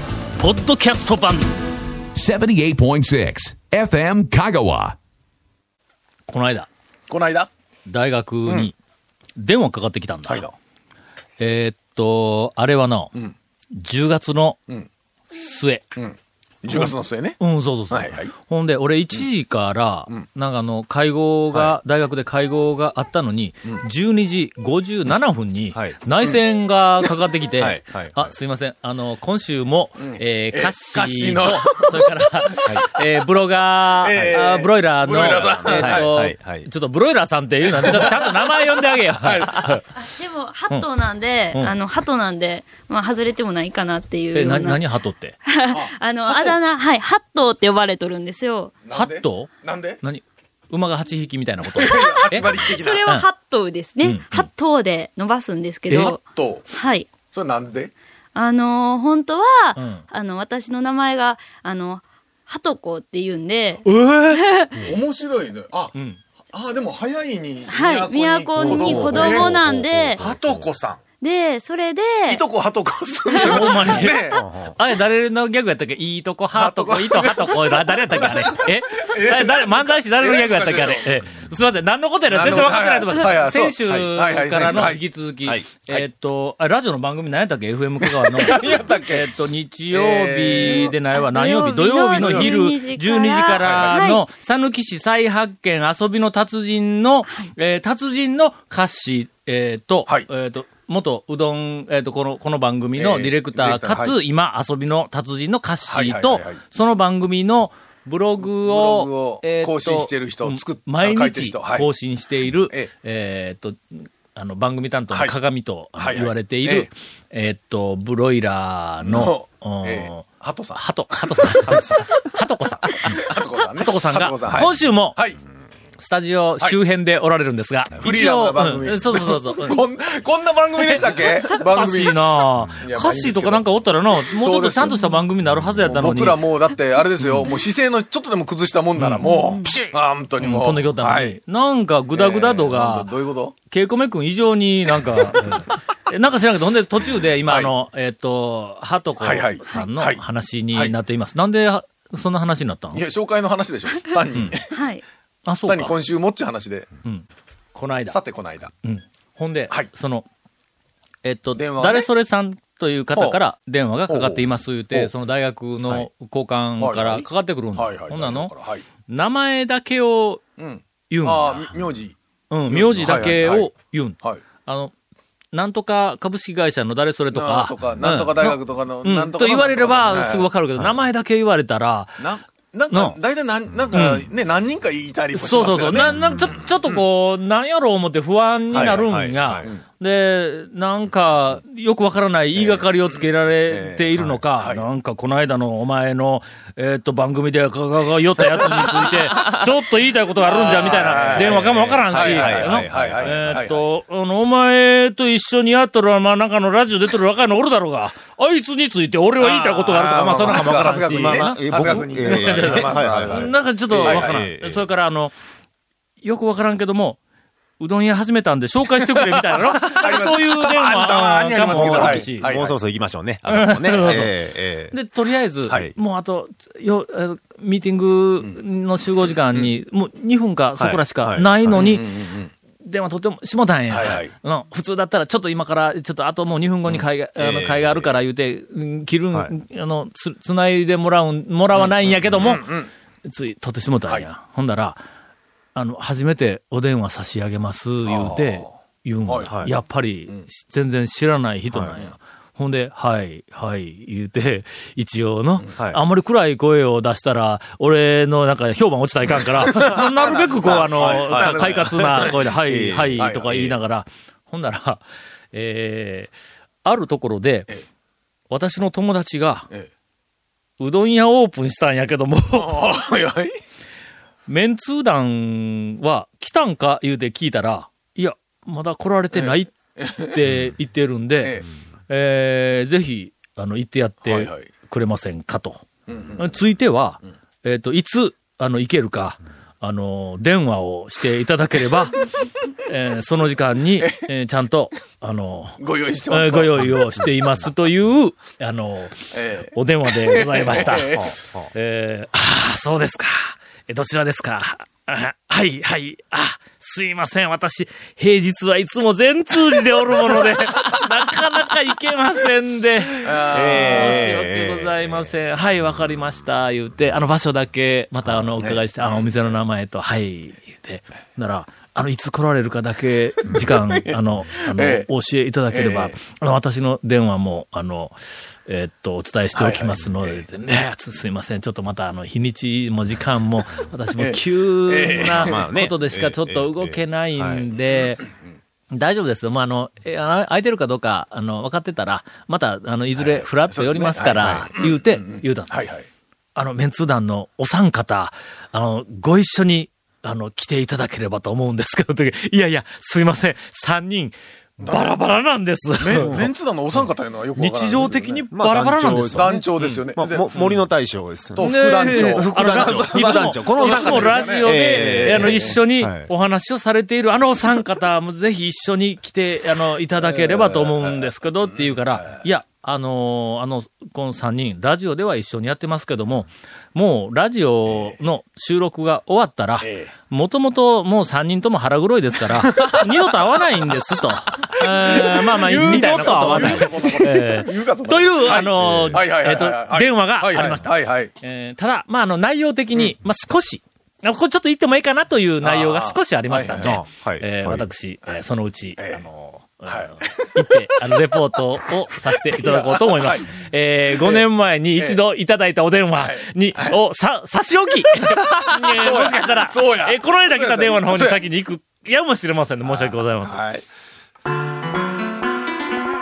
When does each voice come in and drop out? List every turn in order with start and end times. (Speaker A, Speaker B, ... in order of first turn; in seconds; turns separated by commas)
Speaker A: 0.4-1.6, Speaker B: 2.1-5.0, Speaker A: 6.3-6.7, Speaker C: 7.1-7.5, Speaker A: 7.9-8.8, Speaker C: 8.5-8.7, Speaker A: 9.4-10.4, Speaker C: 10.3-10.6, Speaker A: 11.4-13.1, Speaker A: 13.7-14.6, Speaker A: 15.3-15.9, Speaker C: 16.0-17.4, Speaker A: 16.7-39.9, Speaker C: 17.9-18.3, Speaker D: 27.6-28.4, Speaker C: 30.0-32.9, Speaker C: 34.0-36.1, Speaker D: 35.2-36.7, Speaker C: 37.7-38.7, Speaker C: 39.2-39.8, Speaker E: 40.1-44.8, Speaker A: 44.3-45.4, Speaker E: 45.5-48.8, Speaker C: 45.7-46.6, Speaker C: 48.8-50.0, Speaker A: 48.9-52.5, Speaker C: 51.6-53.0, Speaker E: 51.9-57.1, Speaker A: 54.0-54.5, Speaker A: 55.9-56.1, Speaker C: 55.9-56.7, Speaker C: 57.2-57.9, Speaker E: 58.4-64.9, Speaker A: 59.8-60.0, Speaker A: 63.9-64.4, Speaker C: 64.8-65.9, Speaker A: 66.0-66.2, Speaker C: 66.5-69.6, Speaker E: 67.7-70.2, Speaker D: 68.6-70.7, Speaker C: 70.2-71.0, Speaker E: 71.2-72.4, Speaker C: 72.3-74.4, Speaker E: 73.3-73.6, Speaker A: 73.4-123.2, Speaker D: 74.0-74.8, Speaker C: 76.5-81.2, Speaker C: 82.3-85.0, Speaker D: 83.9-84.9, Speaker D: 85.4-85.7, Speaker C: 88.0-89.3, Speaker C: 89.9-90.9, Speaker E: 90.7-94.2, Speaker C: 92.2-92.5, Speaker C: 93.6-93.9, Speaker C: 103.0-104.2, Speaker C: 105.9-106.6, Speaker C: 108.4-111.9, Speaker C: 116.0-116.9, Speaker C: 119.0-122.1, Speaker C: 122.9-125.4, Speaker A: 123.8-125.2, Speaker A: 126.0-129.8, Speaker C: 127.9-132.2, Speaker A: 130.8-136.4, Speaker C: 132.8-133.6, Speaker C: 134.3-135.2, Speaker C: 135.8-141.4, Speaker A: 139.0-143.1, Speaker E: 139.3-139.7, Speaker C: 142.1-143.6, Speaker A: 143.7-153.0, Speaker C: 144.9-145.7, Speaker C: 147.5-147.7, Speaker C: 149.2-150.2, Speaker C: 152.9-154.7, Speaker E: 154.7-155.0, Speaker A: 155.5-156.0, Speaker C: 155.7-156.9, Speaker A: 157.1-158.2, Speaker C: 158.1-158.7, Speaker A: 158.8-160.2, Speaker A: 161.2-168.5, Speaker C: 161.6-162.1, Speaker C: 164.1-165.1, Speaker C: 166.8-168.8, Speaker A: 169.1-170.4, Speaker C: 170.6-172.2, Speaker A: 171.1-171.7, Speaker A: 172.5-174.9, Speaker C: 172.7-173.7, Speaker A: 175.5-182.3, Speaker C: 177.3-180.5, Speaker C: 182.2-186.7, Speaker A: 182.9-183.2, Speaker A: 183.9-184.2, Speaker A: 185.3-215.3, Speaker D: 186.2-186.5, Speaker D: 188.7-189.7, Speaker C: 188.7-189.1, Speaker C: 192.6-194.9, Speaker C: 200.4-203.8, Speaker D: 200.7-203.7, Speaker C: 209.4-214.3, Speaker D: 211.2-214.9, Speaker A: 216.2-217.2, Speaker A: 217.8-222.6, Speaker C: 219.1-222.8, Speaker D: 221.3-225.0, Speaker A: 223.5-224.3, Speaker A: 224.9-232.1, Speaker D: 230.8-231.8, Speaker C: 231.7-232.5, Speaker A: 232.8-242.7, Speaker C: 233.9-234.3, Speaker D: 236.9-238.1, Speaker C: 241.8-242.9, Speaker A: 243.2-245.0, Speaker A: 245.8-266.3, Speaker C: 248.1-248.8, Speaker C: 249.3-249.5, Speaker D: 249.5-249.7, Speaker D: 255.8-256.0, Speaker C: 259.6-262.4, Speaker D: 259.9-263.8, Speaker C: 263.2-263.7, Speaker A: 266.9-267.7, Speaker A: 268.5-269.7, Speaker A: 270.8-272.8, Speaker C: 272.6-273.6, Speaker A: 274.5-285.8, Speaker C: 279.3-280.4, Speaker C: 281.4-281.7, Speaker C: 284.2-284.7, Speaker C: 286.1-286.5, Speaker A: 286.4-292.2, Speaker A: 292.9-301.1, Speaker C: 295.8-297.0, Speaker C: 299.3-301.4, Speaker D: 301.1-301.7, Speaker A: 301.7-338.3, Speaker C: 313.2-314.4, Speaker D: 313.5-315.1, Speaker C: 318.6-319.5, Speaker C: 323.5-325.1, Speaker C: 325.7-326.2, Speaker C: 329.6-330.4, Speaker C: 334.1-335.7, Speaker D: 335.3-337.7, Speaker A: 338.9-345.8, Speaker C: 343.2-346.1, Speaker A: 346.6-356.5, Speaker C: 354.8-355.2, Speaker C: 356.0-358.4, Speaker D: 356.2-356.5, Speaker A: 357.6-360.8, Speaker D: 358.0-366.3, Speaker C: 359.3-360.8, Speaker C: 361.6-365.7, Speaker A: 361.6-413.6, Speaker C: 370.2-372.4, Speaker C: 377.9-378.1, Speaker C: 379.8-380.1, Speaker C: 382.7-383.1, Speaker C: 384.6-391.3, Speaker D: 388.8-389.2, Speaker C: 395.6-397.0, Speaker D: 396.8-397.9, Speaker C: 399.0-399.2, Speaker C: 399.9-400.8, Speaker C: 402.4-404.4, Speaker C: 406.2-407.0, Speaker C: 408.2-411.4, Speaker C: 412.8-413.9